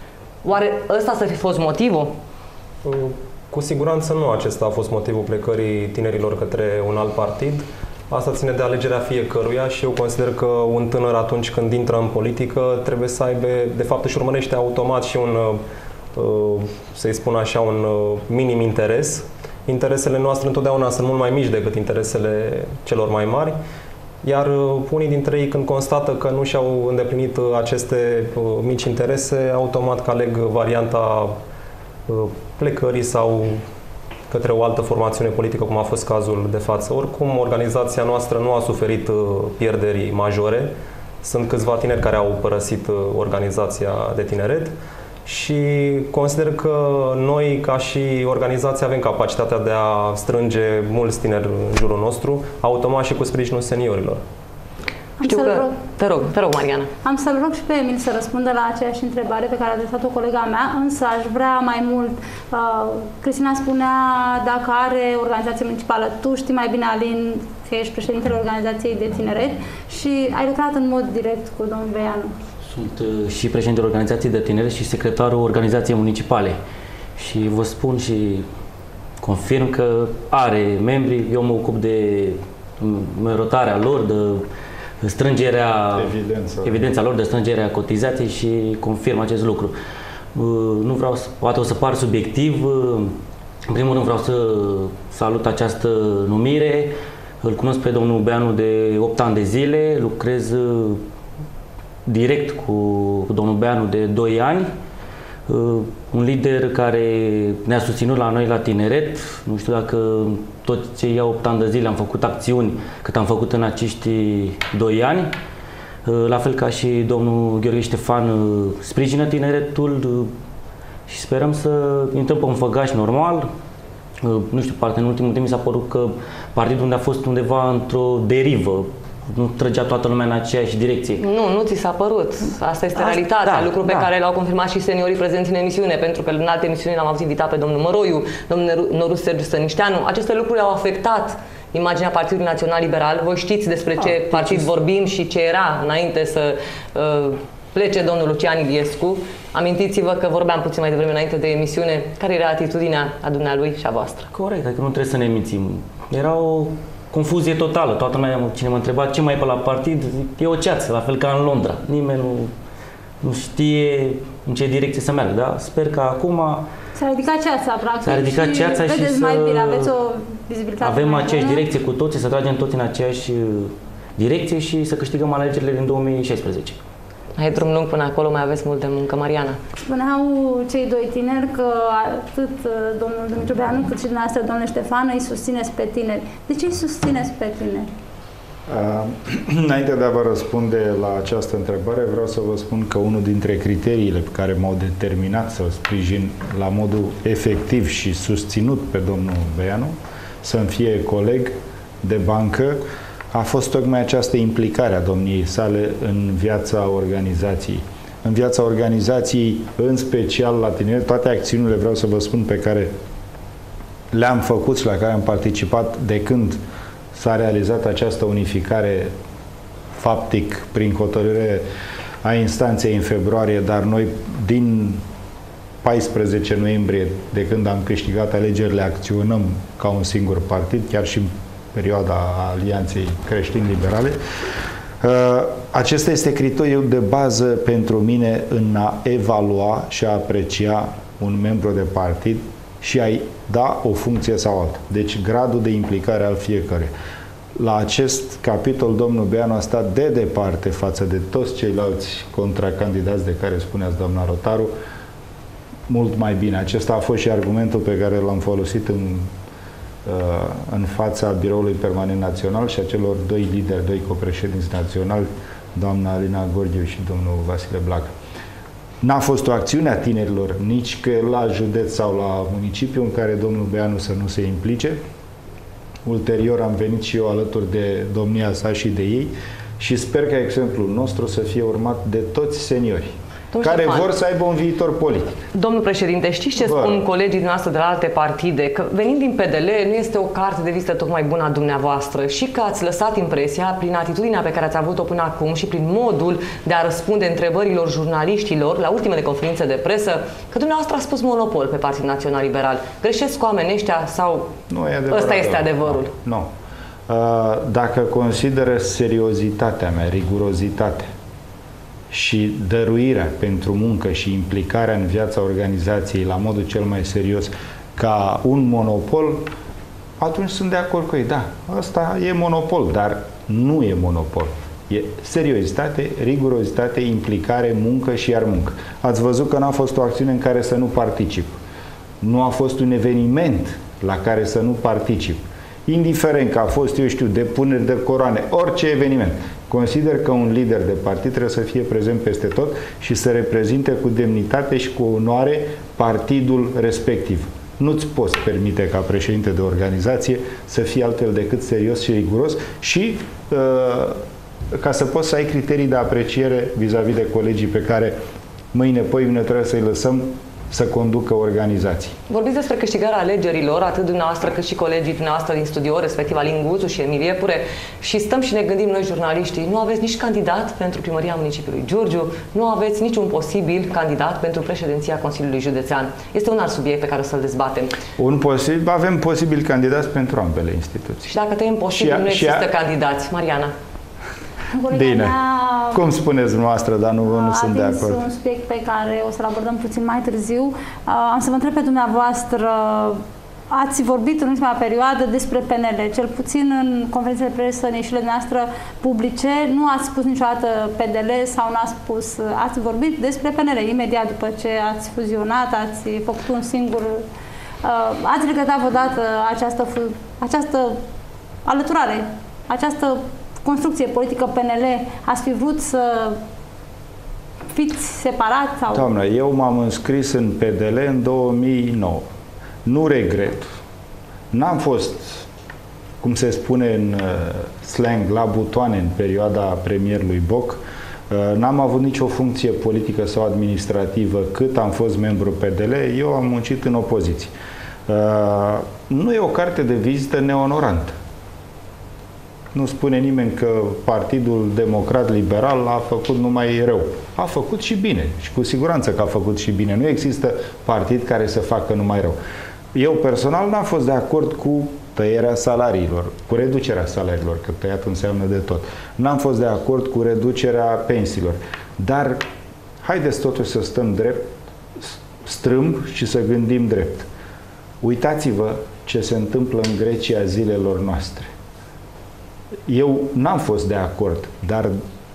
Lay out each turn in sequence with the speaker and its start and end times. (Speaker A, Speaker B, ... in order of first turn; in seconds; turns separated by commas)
Speaker A: 0.4-2.1, Speaker B: 2.8-15.6, Speaker B: 16.1-23.6, Speaker B: 24.2-31.4, Speaker B: 32.1-33.6, Speaker B: 34.3-44.7, Speaker B: 45.2-54.2, Speaker C: 55.2-55.8, Speaker A: 55.2-56.9, Speaker C: 57.0-72.3, Speaker D: 72.6-76.6, Speaker D: 77.2-78.5, Speaker D: 79.2-84.4, Speaker D: 85.0-86.1, Speaker E: 85.9-86.9, Speaker D: 86.6-89.7, Speaker D: 90.3-93.1, Speaker D: 93.7-101.0, Speaker D: 102.0-104.7, Speaker D: 105.5-115.3, Speaker D: 116.0-120.3, Speaker D: 121.1-123.5, Speaker D: 124.2-131.2, Speaker A: 131.2-154.3, Speaker D: 133.0-134.1, Speaker D: 144.0-144.7, Speaker D: 154.3-162.5, Speaker D: 163.2-166.6, Speaker C: 166.9-171.7, Speaker D: 168.0-169.9, Speaker D: 170.8-176.8, Speaker A: 177.4-179.6, Speaker C: 179.8-187.9, Speaker E: 188.7-202.8, Speaker E: 203.3-212.9, Speaker E: 214.1-216.6, Speaker E: 217.1-219.1, Speaker E: 220.0-221.7, Speaker E: 222.2-225.0, Speaker E: 225.8-234.2, Speaker E: 235.0-246.9, Speaker E: 247.6-254.7, Speaker E: 255.9-259.3, Speaker E: 260.0-268.1, Speaker E: 269.0-275.0, Speaker E: 276.0-285.4, Speaker A: 283.5-284.1, Speaker A: 285.5-304.5, Speaker E: 286.6-287.1, Speaker E: 304.7-306.5, Speaker A: 305.1-306.1, Speaker E: 307.1-311.1, Speaker E: 312.1-319.5, Speaker E: 320.2-331.6, Speaker E: 332.2-358.2, Speaker E: 358.7-362.1, Speaker A: 362.3-377.9, Speaker E: 378.2-381.3, Speaker A: 381.3-383.7, Speaker E: 381.9-382.7, Speaker C: 384.7-386.0, Speaker E: 384.9-385.4, Speaker E: 385.9-388.2, Speaker C: 387.2-407.2, Speaker C: 407.8-411.0, Speaker C: 411.6-416.4, Speaker C: 417.7-419.1, Speaker E: 418.9-422.3, Speaker E: 422.8-423.7, Speaker E: 424.5-425.5, Speaker E: 426.2-437.5, Speaker E: 438.1-441.1, Speaker E: 442.7-452.4, Speaker E: 452.9-462.4, Speaker E: 463.0-467.3, Speaker E: 468.0-471.5, Speaker E: 472.9-475.0